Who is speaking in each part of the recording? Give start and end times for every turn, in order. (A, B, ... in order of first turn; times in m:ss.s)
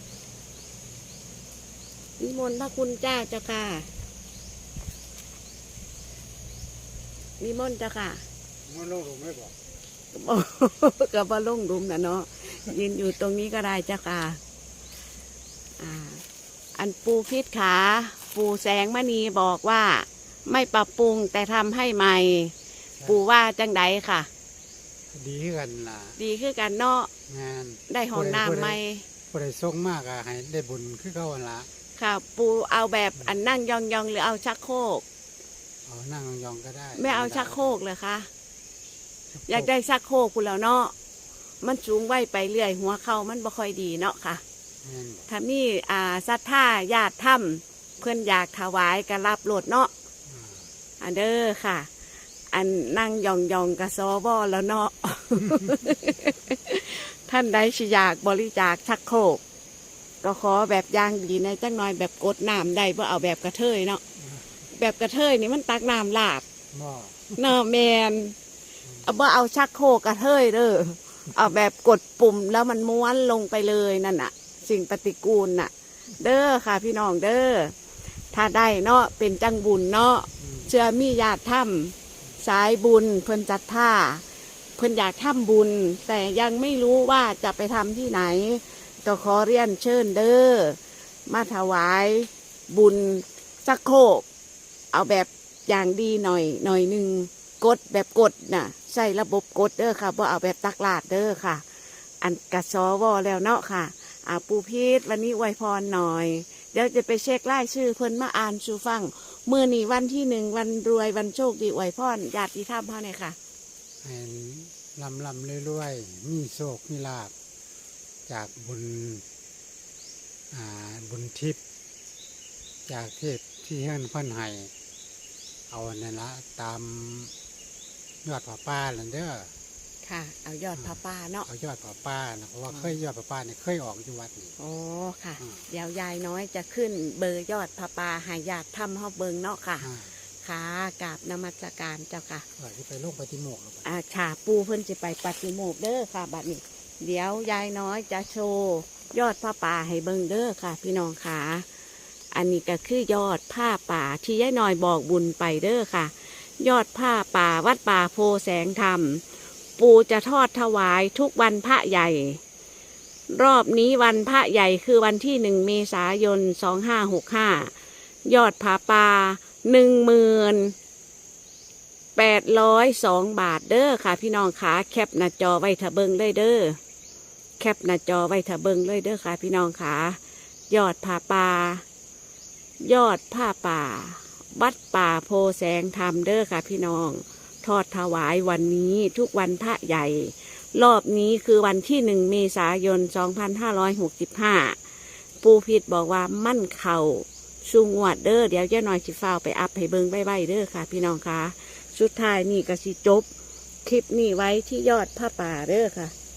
0:02.2-0:03.9 A
0:07.4-0:08.2 A
0:08.7-0:09.5 B
0:10.1-0:14.4 A
0:15.8-0:16.2 A
0:16.8-0:22.5 A
0:23.0-0:24.3 A
0:25.1-0:26.2 B
0:26.2-0:27.1 A
0:27.3-0:28.8 B
0:27.9-0:29.0 A
0:29.3-0:31.7 B
0:32.0-0:35.0 A
0:35.8-0:37.8 B
0:37.0-0:38.3 A
0:39.3-0:39.7 B
0:39.5-0:40.9 A
0:41.6-0:44.4 A
0:44.8-0:45.3 B
0:45.3-0:49.9 A
0:50.3-0:50.6 B
0:51.0-0:51.9 A
0:52.5-0:59.4 A
1:00.2-1:04.0 A
1:04.7-1:06.4 A
1:06.7-1:07.5 B
1:07.4-1:08.4 A
1:09.0-1:17.7 A
1:18.3-1:24.2 A
1:24.8-1:34.2 A
1:34.9-1:41.6 A
1:42.2-1:53.4 A
1:54.0-1:57.3 B
1:58.3-1:59.2 B
2:00.5-2:01.6 B
2:02.9-2:04.7 B
2:05.7-2:07.3 B
2:08.2-2:09.5 B
2:10.0-2:11.4 A
2:11.4-2:14.5 B
2:14.6-2:19.9 A
2:19.8-2:20.1 B
2:20.4-2:22.4 A
2:22.6-2:23.8 B
2:23.8-2:31.6 A
2:32.3-2:39.2 A
2:39.8-2:42.4 A
2:43.3-2:47.7 A
2:48.2-2:50.7 A
2:52.2-2:56.8 A
2:57.6-3:00.2 A
3:00.7-3:01.8 A
3:02.8-3:14.8 A
3:15.4-3:23.3 A
3:23.8-3:26.1 A